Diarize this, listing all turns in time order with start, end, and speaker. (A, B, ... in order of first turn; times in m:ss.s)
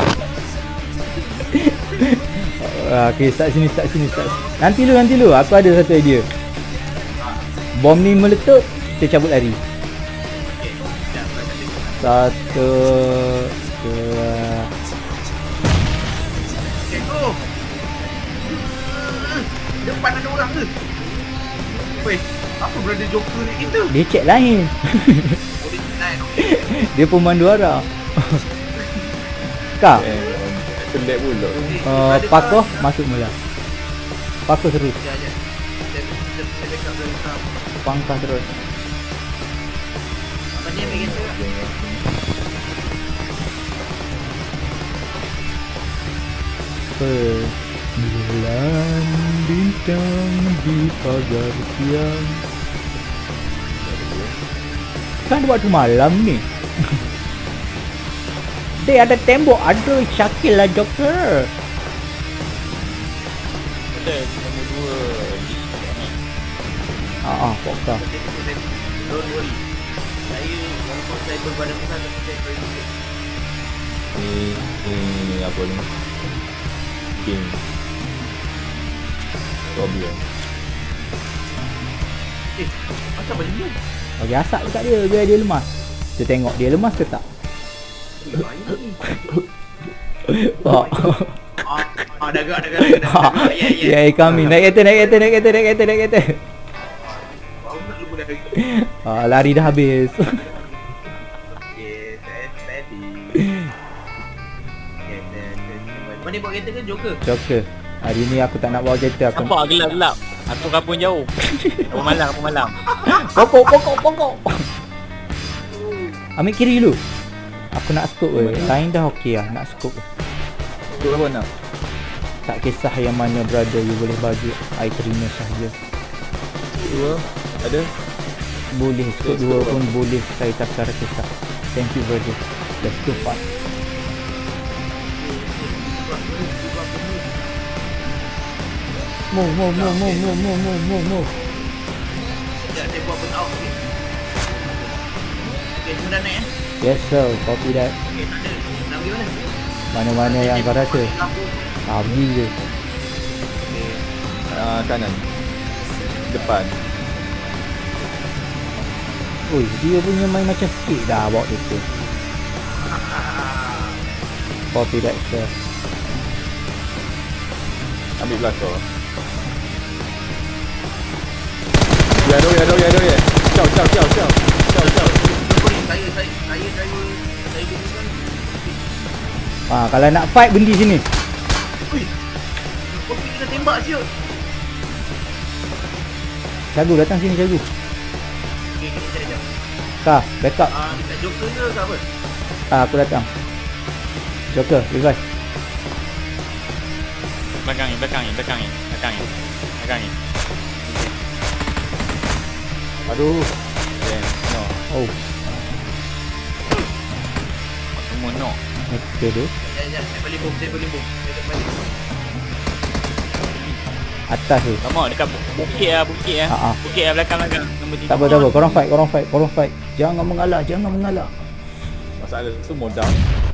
0:01.5-0:06.3 A
0:04.1-0:04.5 B
0:07.2-0:07.4 B
0:07.8-0:09.6 A
0:10.4-0:12.0 B
0:12.0-0:14.7 A
0:16.8-0:17.4 B
0:18.4-0:20.8 B
0:21.6-0:23.9 B
0:23.9-0:25.4 A
0:25.6-0:26.9 B
0:26.4-0:28.4 A
0:29.8-0:30.1 A
0:29.9-0:31.8 C
0:31.6-0:32.9 B
0:31.8-0:33.3 A
0:34.5-0:35.0 A
0:35.0-0:35.4 B
0:35.9-0:37.5 B
0:37.8-0:38.6 A
0:40.6-0:41.4 B
0:40.7-0:42.1 C
0:47.0-0:52.4 A
0:53.8-0:54.3 C
0:55.3-0:56.9 A
0:58.8-1:01.5 A
1:03.9-1:06.1 D
1:07.2-1:08.0 A
1:08.0-1:09.6 B
1:10.3-1:12.9 B
1:14.1-1:15.9 C
1:17.1-1:17.6 C
1:19.7-1:20.2 C
1:22.5-1:23.8 B
1:24.2-1:27.2 A
1:28.2-1:29.0 B
1:30.2-1:31.8 A
1:30.7-1:31.0 B
1:31.6-1:34.8 B
1:32.8-1:36.4 A
1:37.0-1:38.6 B
1:38.5-1:40.4 A
1:39.1-1:39.6 B
1:41.5-1:43.4 B
1:45.0-1:47.2 B
1:47.2-1:49.5 A
1:49.3-1:51.3 D
1:51.4-1:52.1 A
1:51.9-1:52.8 D
1:52.9-1:53.2 B
1:53.0-1:54.6 A
1:55.7-1:56.2 B
1:56.4-1:57.0 A
1:57.7-2:00.0 A
1:58.3-1:58.8 C
2:00.9-2:01.5 C
2:02.4-2:05.8 A
2:06.8-2:07.9 C
2:08.7-2:13.4 A
2:09.2-2:09.8 C
2:15.1-2:17.4 B
2:19.3-2:21.4 A
2:19.4-2:20.4 B
2:22.7-2:23.8 B
2:24.3-2:25.0 B
2:25.6-2:26.5 B
2:26.8-2:27.9 A
2:28.0-2:29.5 B
2:29.9-2:31.1 A
2:30.2-2:31.7 B
2:31.8-2:32.5 A
2:33.6-2:34.0 B
2:34.5-2:35.3 C
2:36.2-2:36.8 C
2:39.4-2:41.8 A
2:42.8-2:44.1 B
2:44.7-2:45.5 A
2:48.2-2:48.8 C
2:52.2-2:55.1 C
2:54.8-2:58.8 B
2:59.7-3:01.0 A
3:01.8-3:02.1 B
3:02.9-3:04.1 B
3:06.7-3:07.7 A
3:08.7-3:09.5 B
3:10.0-3:10.7 A
3:10.7-3:12.0 B
3:12.7-3:13.3 A
3:14.5-3:15.2 A
3:17.6-3:20.1 D
3:20.8-3:21.1 D
3:23.1-3:24.8 C
3:24.9-3:25.2 A
3:27.9-3:28.6 D
3:28.9-3:29.5 A
3:29.6-3:32.0 B
3:34.3-3:34.8 A
3:34.8-3:38.5 D
3:36.5-3:36.8 A
3:38.1-3:41.3 A
3:42.2-3:43.2 C